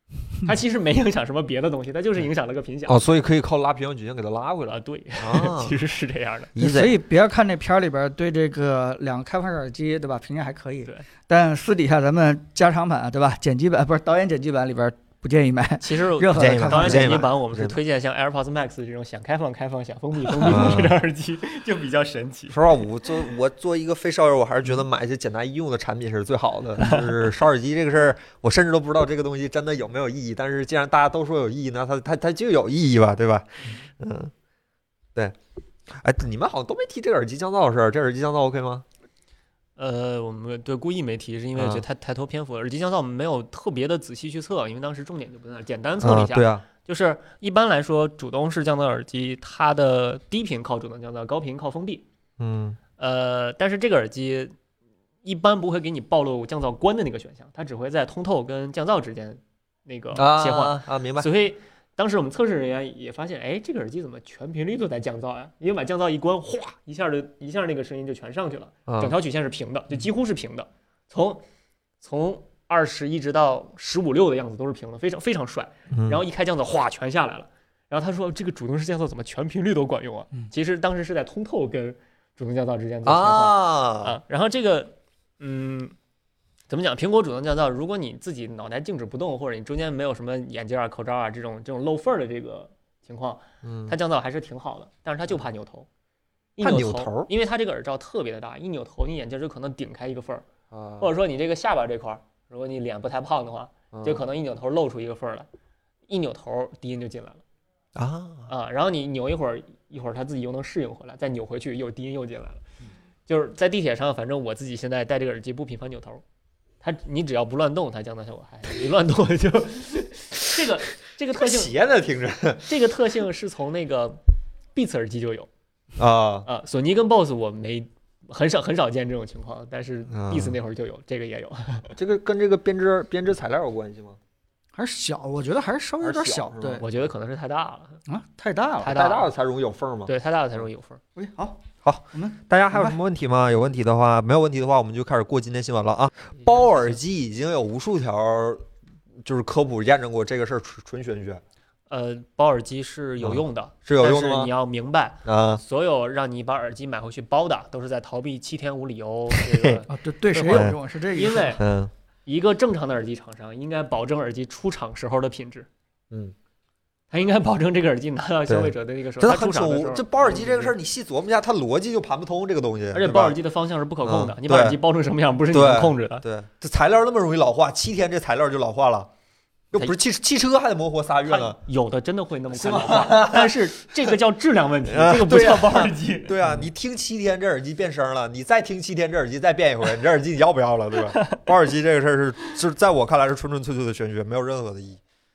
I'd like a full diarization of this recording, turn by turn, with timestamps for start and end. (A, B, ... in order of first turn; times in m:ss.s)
0:00.4-0:03.0 A
0:02.9-0:05.8 B
0:04.6-0:06.5 A
0:06.5-0:06.9 B
0:06.6-0:17.2 C
0:15.8-0:22.6 A
0:16.4-0:17.8 B
0:20.4-0:21.0 B
0:22.5-0:34.3 B
0:35.9-0:38.8 B
0:39.8-0:52.0 A
0:41.6-0:41.8 B
0:46.0-0:46.6 B
0:52.4-0:52.8 B
0:53.0-0:54.5 A
0:55.2-1:11.4 A
1:00.1-1:01.3 B
1:08.9-1:09.1 B
1:12.0-1:25.9 A
1:15.9-1:16.2 B
1:23.0-1:24.2 B
1:26.7-1:35.9 A
1:33.6-1:33.9 B
1:36.6-1:40.4 A
1:36.6-1:37.3 B
1:40.7-1:41.1 B
1:41.0-1:45.5 A
1:43.9-1:44.2 B
1:46.1-1:47.4 A
1:48.0-1:48.5 B
1:48.5-1:52.6 A
1:53.2-1:56.2 A
1:56.8-2:01.7 A
2:01.3-2:02.6 B
2:02.6-2:04.2 A
2:04.7-2:05.5 A
2:06.0-2:06.5 B
2:06.4-2:11.9 A
2:10.1-2:10.6 B
2:12.0-2:14.2 B
2:14.8-2:16.8 C
2:16.0-2:16.8 B
2:16.8-2:18.0 A
2:18.1-2:18.9 C
2:18.8-2:19.3 A
2:18.9-2:20.1 B
2:20.0-2:21.0 A
2:21.2-2:21.6 C
2:21.8-2:31.4 B
2:22.1-2:23.0 C
2:26.3-2:27.0 A
2:31.9-2:41.6 A
2:33.2-2:34.5 B
2:35.2-2:35.6 B
2:39.3-2:39.8 B
2:39.9-2:41.6 C
2:40.5-2:40.7 B
2:41.6-2:41.9 B
2:42.2-2:45.7 A
2:47.1-2:50.7 A
2:48.5-2:53.4 B
2:52.9-2:56.2 A
2:54.0-2:54.8 B
2:55.5-2:59.1 B
2:59.7-3:01.6 B
3:01.2-3:06.4 A
3:02.5-3:04.1 B
3:04.9-3:15.0 B
3:11.1-3:11.4 A